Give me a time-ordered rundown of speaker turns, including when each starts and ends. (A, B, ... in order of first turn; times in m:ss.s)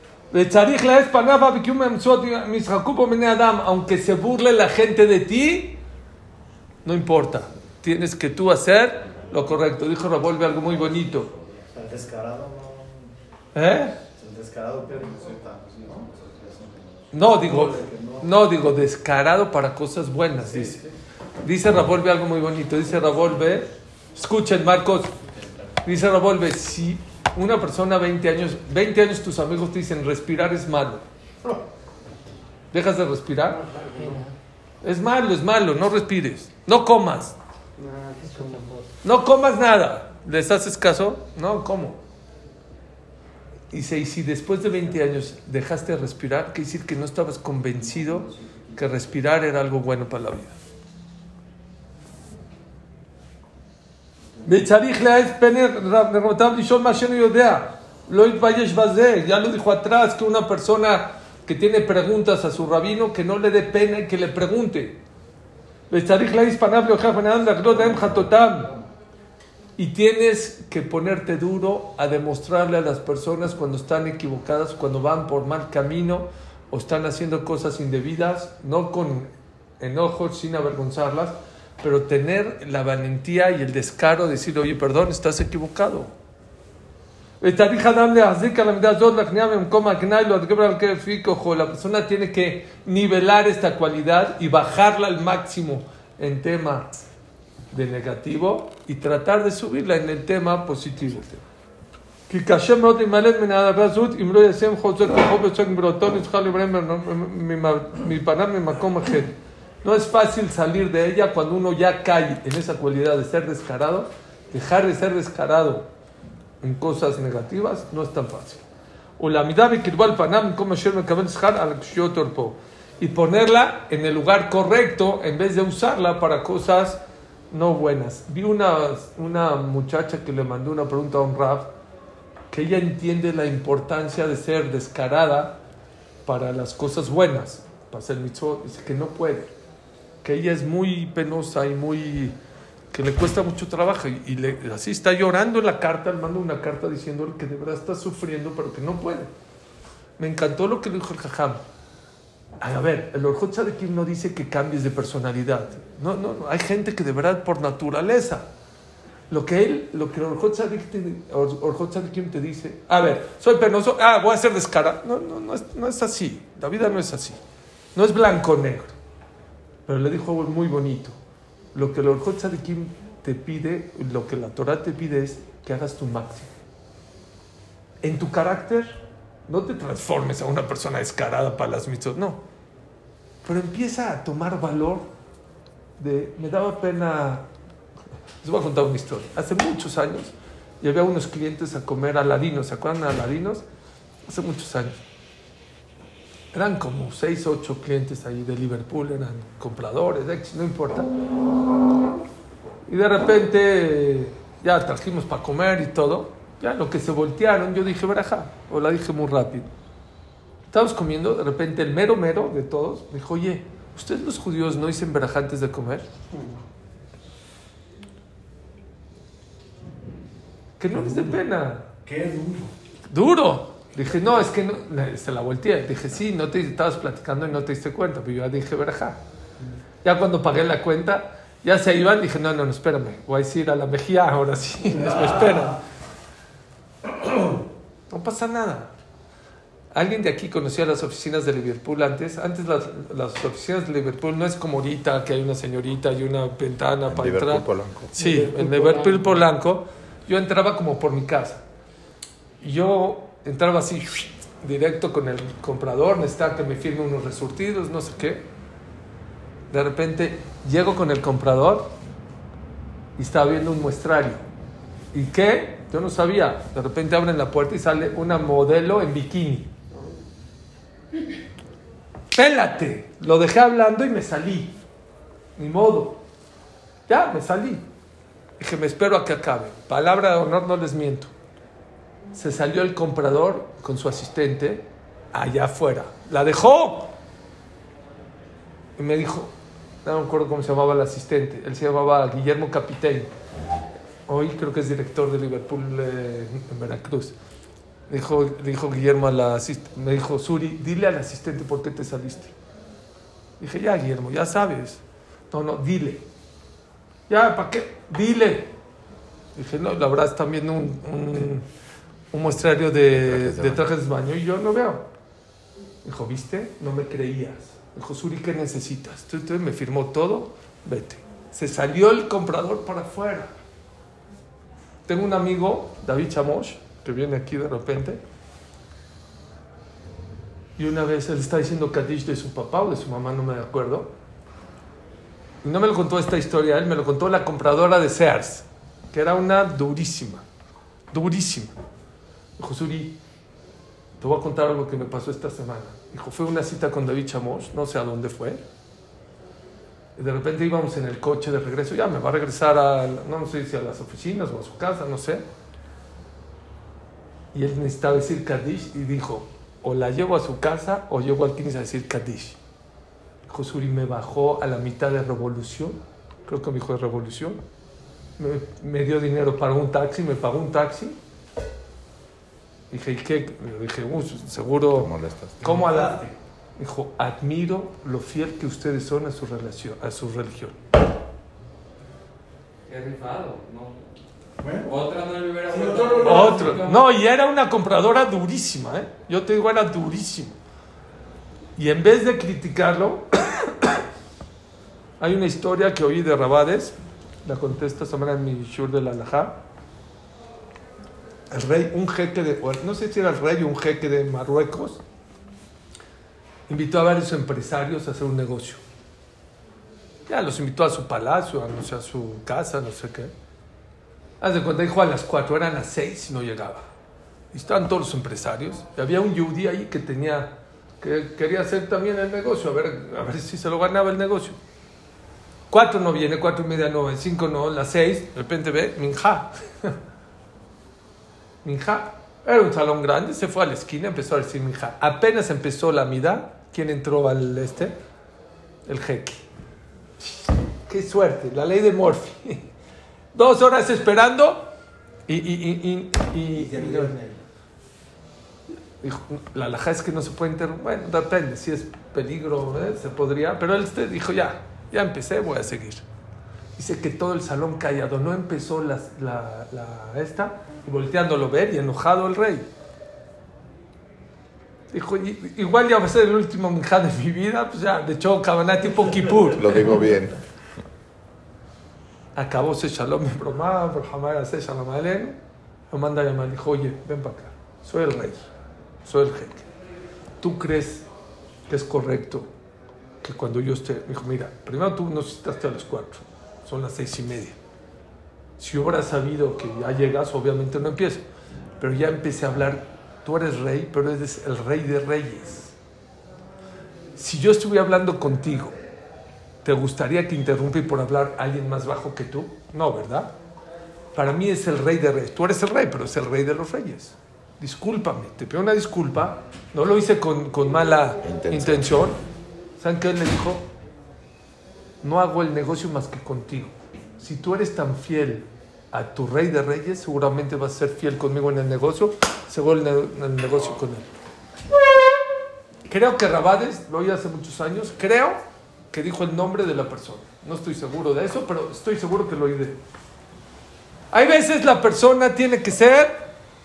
0:00.3-0:05.8 A
0:06.8-0:11.3 A
0:11.7-0:12.9 B
0:13.5-0:14.0 A
0:14.2-0:15.9 B
0:17.1-0:20.8 A
0:17.4-0:18.2 B
0:21.4-0:25.1 A
0:25.8-0:31.0 A
0:32.7-0:33.6 A
0:33.5-0:34.3 B
0:34.8-0:37.4 A
0:37.8-0:38.9 B
0:39.0-0:42.0 A
0:43.7-0:50.6 A
0:47.8-0:49.1 C
0:54.4-1:05.0 A
1:05.9-1:08.7 A
1:07.7-1:08.8 C
1:09.8-1:26.1 A
1:27.4-1:36.9 A
1:37.7-1:41.4 A
1:42.3-1:55.9 A
1:56.6-1:58.6 A
1:59.2-2:11.7 A
2:12.5-2:15.6 A
2:16.2-2:19.5 A
2:20.2-2:22.4 A
2:22.9-2:29.3 A
2:30.2-2:31.6 A
2:32.6-2:38.5 A
2:39.3-2:47.4 A
2:47.9-2:48.9 A
2:49.8-2:51.1 A
2:51.7-2:56.5 A
2:58.0-3:02.4 A
3:03.4-3:05.1 A
3:06.0-3:07.5 A
3:08.4-3:13.6 A
3:14.2-3:14.9 A
3:16.5-3:21.1 A
3:22.9-3:29.7 A
3:30.7-3:36.1 A
3:36.3-3:36.6 B
3:40.8-3:41.9 A
3:40.9-3:41.4 D
3:42.0-3:42.7 D
3:43.1-3:49.2 A
3:50.0-3:55.8 A
3:58.1-3:58.9 A
3:59.9-4:11.6 A
4:07.0-4:08.1 E
4:12.6-4:18.5 A
4:19.7-4:21.9 A
4:23.2-4:24.4 A
4:25.1-4:29.7 A
4:32.3-4:34.8 A
4:35.6-4:36.2 A
4:37.1-4:37.8 A
4:38.6-4:41.3 A
4:42.3-4:47.1 A
4:49.0-4:49.5 A
4:50.0-4:53.3 A
4:54.3-4:57.3 A
4:58.1-5:02.5 A
5:03.6-5:06.2 A
5:07.3-5:08.7 A
5:09.5-5:11.6 A
5:12.3-5:15.1 A
5:13.1-5:13.8 E
5:16.0-5:23.5 A
5:25.1-5:28.2 A
5:30.8-5:34.1 A
5:35.6-5:40.4 A
5:41.1-5:41.7 A
5:42.6-5:43.2 A
5:44.2-5:48.6 A
5:50.2-5:55.4 A
5:57.5-6:02.6 A
6:03.4-6:07.6 A
6:08.4-6:11.2 A
6:12.9-6:16.2 A
6:14.9-6:15.6 E
6:15.6-6:16.3 D
6:16.8-6:20.8 A
6:22.9-6:24.1 C
6:24.6-6:24.9 D
6:24.8-6:27.1 C
6:25.7-6:26.8 D
6:26.2-6:30.6 A
6:31.8-6:33.9 A
6:35.2-6:39.6 A
6:41.5-6:45.0 A
6:46.7-6:48.8 A
6:50.3-6:53.3 A
6:54.4-6:56.9 A
6:57.5-7:04.6 A
7:05.7-7:10.0 A
7:11.6-7:18.0 A
7:18.9-7:19.4 A
7:20.2-7:22.7 A
7:23.3-7:24.7 A
7:25.3-7:27.1 A
7:26.5-7:27.4 B
7:29.0-7:36.0 A
7:36.8-7:42.7 A
7:44.9-7:49.9 A
7:49.4-7:50.4 E
7:52.3-7:55.4 A
7:55.9-7:58.5 A
7:59.0-7:59.6 A
8:00.4-8:01.0 A
8:01.7-8:02.5 A
8:03.2-8:07.6 A
8:08.6-8:11.2 A
8:11.8-8:15.7 A
8:17.2-8:18.7 A
8:19.6-8:23.3 A
8:24.1-8:32.2 A
8:31.2-8:32.1 E
8:32.8-8:33.7 A
8:35.0-8:44.1 A
8:45.9-8:48.4 A
8:48.9-8:52.8 A
8:54.1-8:56.3 A